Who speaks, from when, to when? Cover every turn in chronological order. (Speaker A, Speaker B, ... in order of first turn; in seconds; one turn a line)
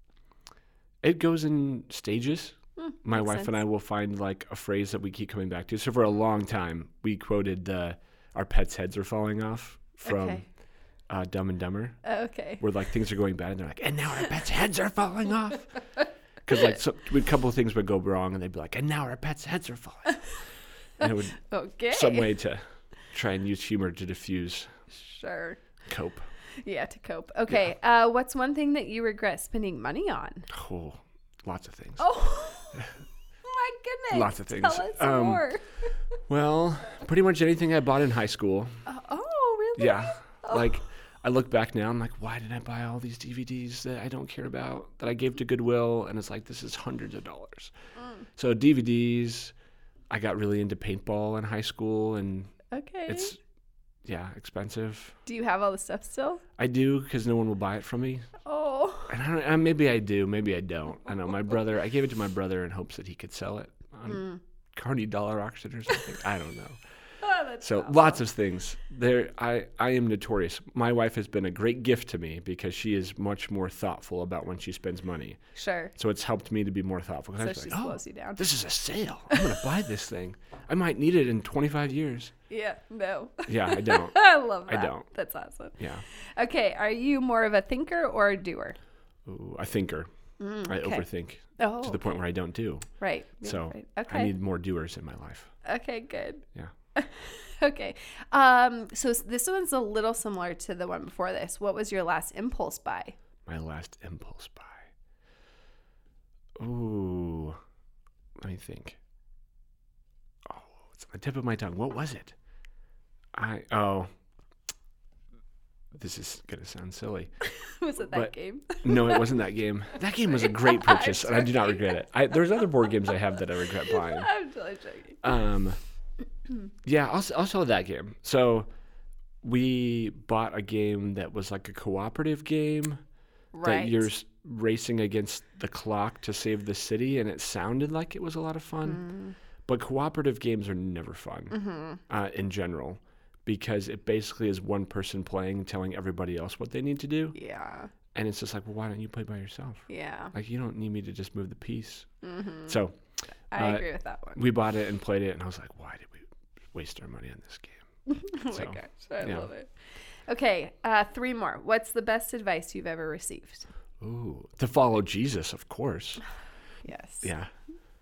Speaker A: 1.0-10.4
Speaker B: 2.8-3.5
Speaker B: 10.1-10.4
Speaker A: 11.1-12.0
Speaker B: 12.0-12.6
Speaker A: 12.6-15.8
Speaker A: 16.4-20.2
Speaker A: 21.0-21.4
Speaker B: 21.0-22.3
Speaker A: 21.9-24.7
Speaker B: 24.9-25.6
Speaker A: 25.9-26.2
Speaker B: 26.6-30.5
Speaker A: 30.5-32.0
Speaker B: 32.0-32.9
Speaker B: 33.4-35.7
Speaker A: 34.1-35.5
Speaker A: 36.3-38.7
Speaker B: 38.9-40.7
Speaker A: 39.8-47.7
Speaker B: 48.0-48.2
Speaker A: 48.4-49.5
Speaker A: 50.1-52.5
Speaker B: 52.7-53.4
Speaker A: 53.1-53.4
Speaker A: 54.0-55.1
Speaker B: 55.2-56.4
Speaker A: 56.6-58.3
Speaker B: 58.4-59.1
Speaker A: 59.1-66.8
Speaker B: 64.1-64.4
Speaker B: 67.2-68.2
Speaker A: 67.6-75.4
Speaker B: 75.6-75.9
Speaker A: 76.0-82.3
Speaker B: 77.4-78.5
Speaker B: 79.3-79.6
Speaker B: 82.5-85.8
Speaker A: 83.5-84.2
Speaker A: 84.7-85.1
Speaker A: 85.8-86.0
Speaker B: 86.4-88.8
Speaker A: 89.2-90.1
Speaker B: 90.4-91.0
Speaker A: 90.6-92.9
Speaker B: 91.6-92.2
Speaker B: 93.0-94.3
Speaker A: 93.4-95.5
Speaker B: 95.7-103.2
Speaker A: 103.5-104.9
Speaker A: 106.6-107.6
Speaker A: 108.4-109.0
Speaker A: 110.5-112.3
Speaker A: 113.4-114.1
Speaker A: 115.9-117.3
Speaker B: 117.4-119.3
Speaker A: 118.0-124.3
Speaker B: 120.3-122.0
Speaker B: 122.6-123.2
Speaker B: 123.9-125.4
Speaker A: 125.2-125.8
Speaker A: 126.8-128.7
Speaker A: 129.4-133.0
Speaker B: 133.5-134.1
Speaker A: 133.6-139.0
Speaker B: 138.8-139.3
Speaker A: 139.7-141.6
Speaker B: 141.5-142.0
Speaker A: 142.1-147.4
Speaker B: 147.3-147.9
Speaker A: 148.1-152.1
Speaker B: 149.9-150.3
Speaker B: 152.2-152.8
Speaker A: 152.7-152.9
Speaker B: 153.5-154.4
Speaker A: 153.6-157.9
Speaker B: 158.1-159.7
Speaker A: 158.5-159.5
Speaker B: 160.3-163.7
Speaker A: 164.0-166.2
Speaker B: 166.8-167.3
Speaker A: 167.2-167.5